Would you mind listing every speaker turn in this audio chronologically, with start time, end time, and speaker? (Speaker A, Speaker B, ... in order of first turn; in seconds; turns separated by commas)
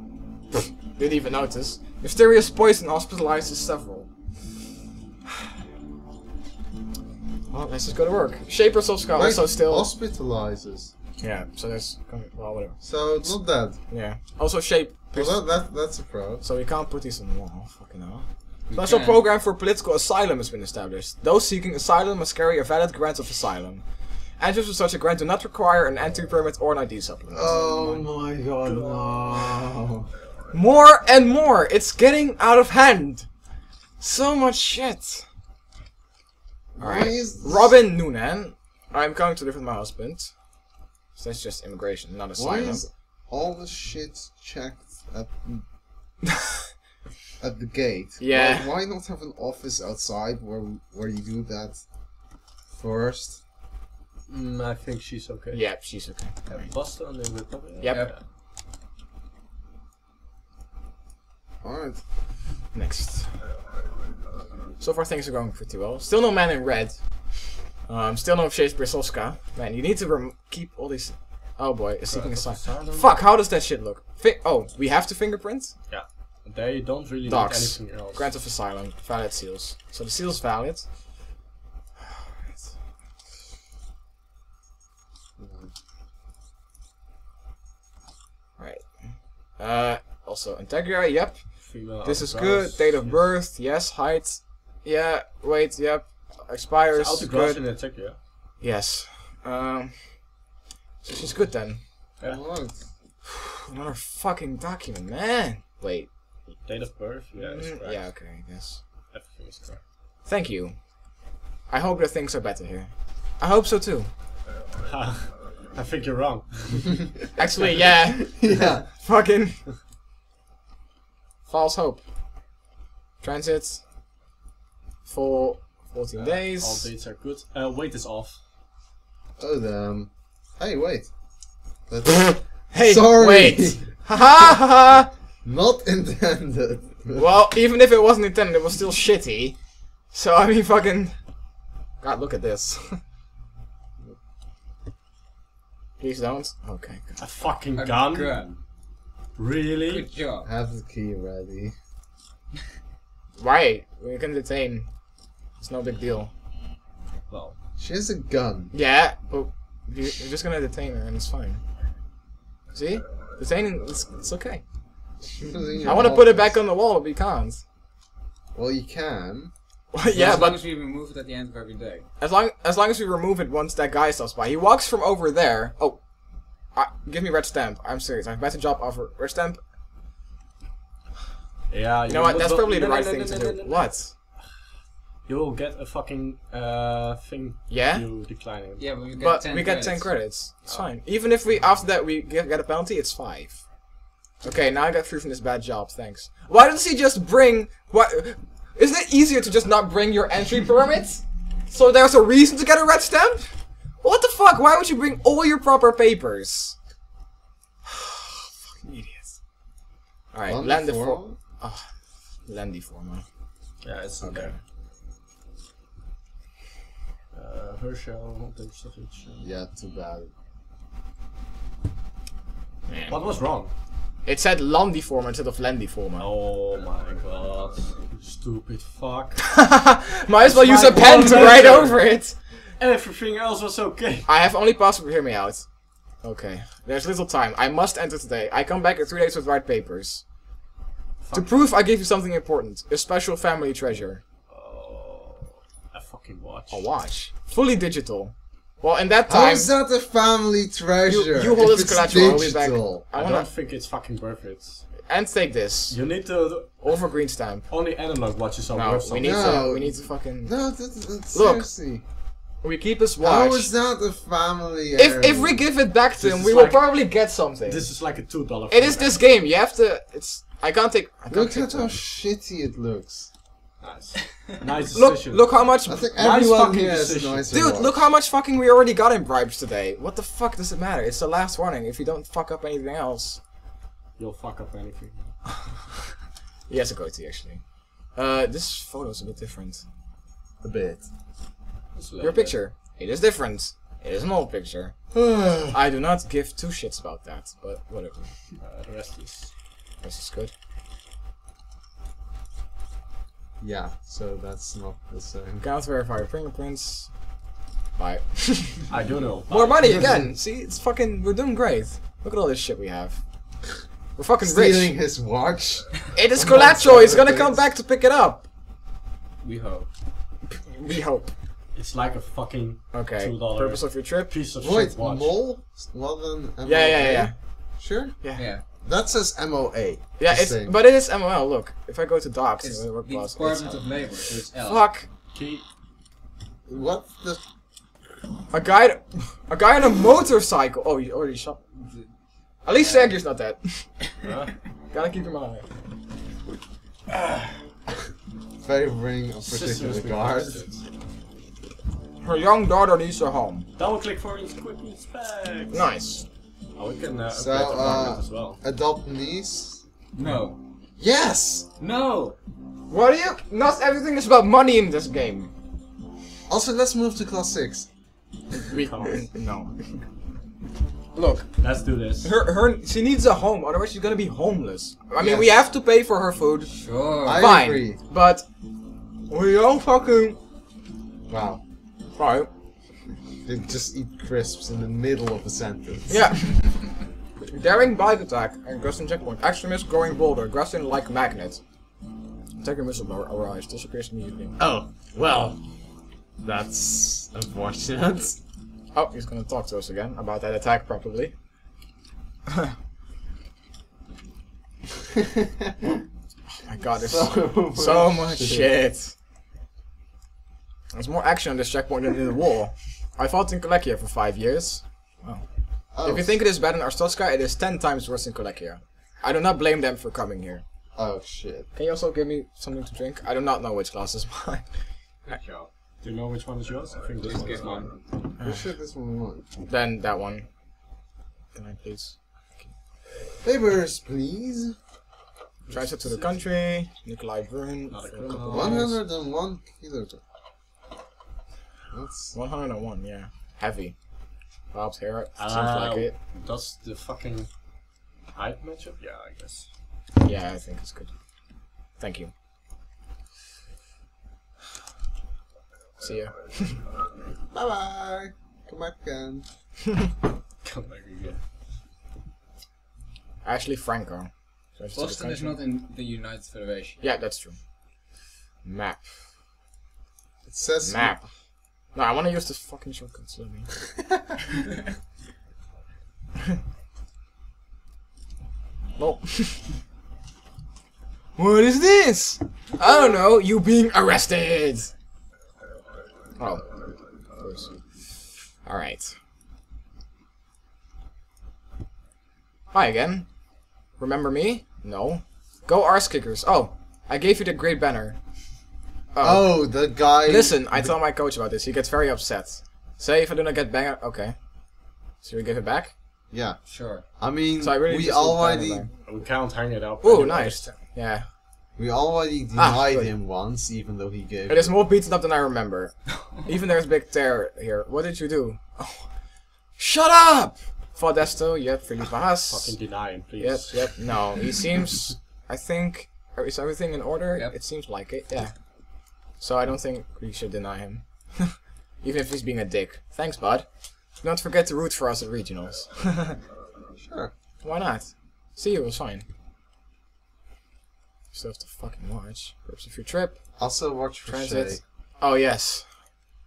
Speaker A: 0.9-4.5, Speaker A: 7.5-9.9, Speaker B: 9.1-10.9, Speaker A: 11.2-15.4, Speaker B: 12.8-13.8, Speaker B: 15.1-16.4, Speaker A: 16.4-27.5, Speaker C: 18.7-19.2, Speaker B: 27.3-30.1, Speaker D: 28.6-29.5, Speaker A: 30.5-33.4, Speaker A: 34.0-35.3, Speaker B: 36.8-37.7, Speaker A: 36.8-40.6, Speaker A: 41.1-42.8, Speaker B: 42.4-45.6, Speaker B: 47.4-51.9, Speaker A: 48.2-48.7, Speaker B: 52.7-53.4, Speaker D: 54.3-58.2, Speaker A: 55.5-56.7, Speaker B: 61.6-62.0, Speaker A: 62.7-63.3, Speaker A: 64.8-75.8, Speaker D: 72.0-73.2, Speaker D: 75.9-78.3, Speaker A: 77.2-81.1, Speaker B: 85.4-85.7, Speaker A: 88.6-97.6, Speaker D: 91.5-93.3, Speaker D: 96.9-98.2, Speaker A: 98.6-100.4, Speaker A: 101.0-101.8, Speaker B: 102.2-102.8, Speaker A: 103.6-106.1, Speaker D: 106.6-108.2, Speaker A: 107.3-108.8, Speaker D: 109.1-109.8, Speaker A: 110.2-110.9, Speaker A: 111.7-114.1, Speaker D: 114.8-117.1, Speaker A: 117.3-119.6, Speaker B: 118.3-118.9, Speaker A: 121.5-122.0, Speaker A: 123.2-123.8, Speaker A: 125.0-126.9, Speaker D: 126.2-128.4, Speaker B: 129.4-131.1, Speaker B: 131.9-134.0, Speaker A: 132.7-135.1, Speaker B: 135.4-137.3, Speaker A: 137.2-141.2, Speaker A: 142.0-143.0, Speaker A: 146.0-147.2, Speaker D: 147.2-148.6, Speaker C: 147.7-148.6, Speaker D: 149.4-150.1, Speaker C: 149.8-150.5, Speaker B: 150.4-151.7, Speaker A: 153.4-154.9, Speaker A: 155.6-156.3, Speaker D: 157.3-157.6, Speaker B: 157.8-158.7, Speaker A: 158.7-161.6, Speaker A: 162.7-164.6, Speaker B: 165.3-166.6, Speaker A: 165.8-167.6, Speaker B: 168.5-169.5, Speaker A: 169.9-170.6, Speaker C: 170.1-172.1, Speaker A: 172.2-179.6, Speaker D: 181.7-184.2, Speaker A: 182.1-184.1, Speaker D: 185.2-188.9, Speaker A: 187.7-188.1, Speaker C: 188.8-190.2, Speaker A: 189.2-193.7, Speaker A: 194.4-206.8, Speaker A: 207.8-209.4, Speaker A: 210.3-213.2, Speaker B: 210.4-211.4, Speaker D: 213.8-214.5, Speaker A: 214.2-214.5, Speaker D: 217.3-219.4, Speaker B: 219.4-220.3, Speaker A: 222.9-223.2, Speaker D: 223.1-223.7, Speaker A: 224.2-226.3, Speaker D: 226.2-229.6, Speaker A: 229.5-232.4, Speaker D: 230.4-234.3, Speaker A: 234.2-240.3, Speaker D: 241.2-241.7, Speaker A: 241.3-244.2, Speaker D: 244.5-246.9, Speaker A: 246.7-249.7, Speaker B: 249.3-253.1, Speaker A: 251.1-253.5, Speaker D: 253.1-254.9, Speaker A: 255.0-256.0, Speaker D: 255.9-259.6, Speaker A: 256.8-257.6, Speaker A: 258.7-260.6, Speaker B: 259.2-262.0, Speaker A: 261.3-261.7, Speaker A: 262.6-263.7, Speaker B: 263.2-265.6, Speaker A: 265.0-267.9, Speaker D: 266.1-269.2, Speaker A: 268.7-272.0, Speaker B: 271.3-273.3, Speaker D: 273.8-275.5, Speaker A: 274.9-276.2, Speaker B: 275.9-278.1, Speaker D: 276.1-277.5, Speaker A: 277.5-283.4, Speaker D: 284.2-286.0, Speaker A: 286.7-289.9, Speaker B: 290.6-291.1, Speaker D: 291.9-292.6, Speaker A: 292.2-295.0, Speaker B: 295.1-295.8, Speaker A: 295.7-298.3, Speaker D: 298.6-299.5, Speaker A: 300.0-300.5, Speaker B: 303.6-305.6, Speaker A: 305.6-307.3, Speaker A: 307.9-308.9, Speaker D: 308.9-310.1, Speaker A: 309.5-314.9, Speaker B: 309.8-310.3, Speaker B: 314.4-317.6, Speaker A: 316.1-318.4, Speaker C: 319.4-319.9, Speaker A: 320.6-321.3, Speaker D: 321.7-325.4, Speaker A: 322.9-324.3, Speaker B: 324.6-328.2, Speaker A: 326.6-327.4, Speaker A: 328.2-328.5, Speaker C: 328.4-328.6, Speaker B: 328.8-330.7, Speaker A: 330.2-335.1, Speaker C: 332.6-334.9, Speaker D: 335.3-335.6, Speaker B: 336.7-337.4, Speaker A: 338.5-341.6, Speaker C: 341.8-342.1, Speaker A: 342.6-344.1, Speaker C: 342.8-343.1, Speaker D: 344.2-344.5, Speaker A: 344.9-345.6, Speaker B: 348.6-350.7, Speaker D: 349.4-350.9, Speaker A: 352.2-353.7, Speaker D: 353.8-355.9, Speaker A: 355.7-356.2, Speaker D: 356.8-358.6, Speaker B: 357.3-359.8, Speaker C: 360.1-360.6, Speaker B: 361.0-361.7, Speaker C: 361.8-362.4, Speaker A: 362.9-365.5, Speaker B: 366.5-367.9, Speaker A: 368.7-369.8, Speaker D: 368.7-369.2, Speaker D: 371.5-372.3, Speaker A: 372.2-376.7, Speaker B: 375.2-375.6, Speaker C: 376.7-377.5, Speaker B: 377.2-378.0, Speaker A: 377.4-378.4, Speaker A: 379.3-380.4, Speaker B: 381.3-381.6, Speaker A: 382.1-382.5, Speaker B: 383.4-386.3, Speaker A: 386.1-386.9, Speaker A: 387.5-391.6, Speaker A: 392.6-394.6, Speaker B: 394.6-395.6, Speaker B: 396.4-398.4, Speaker A: 398.9-401.3, Speaker B: 405.6-405.9, Speaker A: 406.5-409.1, Speaker B: 406.9-408.7, Speaker A: 410.9-420.6, Speaker B: 415.9-416.4, Speaker B: 420.9-421.7, Speaker A: 421.7-424.7, Speaker C: 425.2-425.7, Speaker D: 426.0-428.0, Speaker C: 427.2-427.9, Speaker A: 428.4-428.7, Speaker B: 428.4-429.5, Speaker A: 429.6-430.5, Speaker A: 431.5-432.7, Speaker B: 433.4-434.8, Speaker D: 435.7-436.3, Speaker A: 435.7-439.0, Speaker D: 437.9-439.0, Speaker B: 438.5-440.2, Speaker B: 441.9-442.4, Speaker A: 442.3-444.0, Speaker A: 444.7-446.1, Speaker D: 445.4-447.5, Speaker D: 448.3-449.7, Speaker A: 450.2-451.1, Speaker A: 451.9-452.3, Speaker A: 456.0-456.8, Speaker B: 457.5-459.4, Speaker D: 460.6-461.4, Speaker A: 463.4-465.6, Speaker C: 464.9-467.0, Speaker A: 467.0-467.7, Speaker A: 468.6-469.1, Speaker B: 470.4-471.1, Speaker A: 470.8-473.7, Speaker A: 478.9-479.7, Speaker A: 481.4-484.9, Speaker A: 486.4-486.7, Speaker A: 487.4-487.7, Speaker A: 488.6-489.1, Speaker A: 492.7-493.3, Speaker A: 493.9-498.2, Speaker A: 499.1-505.9, Speaker B: 499.2-500.9, Speaker B: 506.3-508.9, Speaker C: 506.6-507.1, Speaker A: 507.6-508.9, Speaker D: 509.0-510.7, Speaker A: 510.0-511.3, Speaker B: 511.8-514.7, Speaker A: 512.5-513.1, Speaker A: 514.5-519.1, Speaker A: 519.8-536.4, Speaker D: 522.5-524.5, Speaker B: 537.0-537.3, Speaker A: 537.6-539.2, Speaker A: 541.3-546.1, Speaker B: 543.6-544.8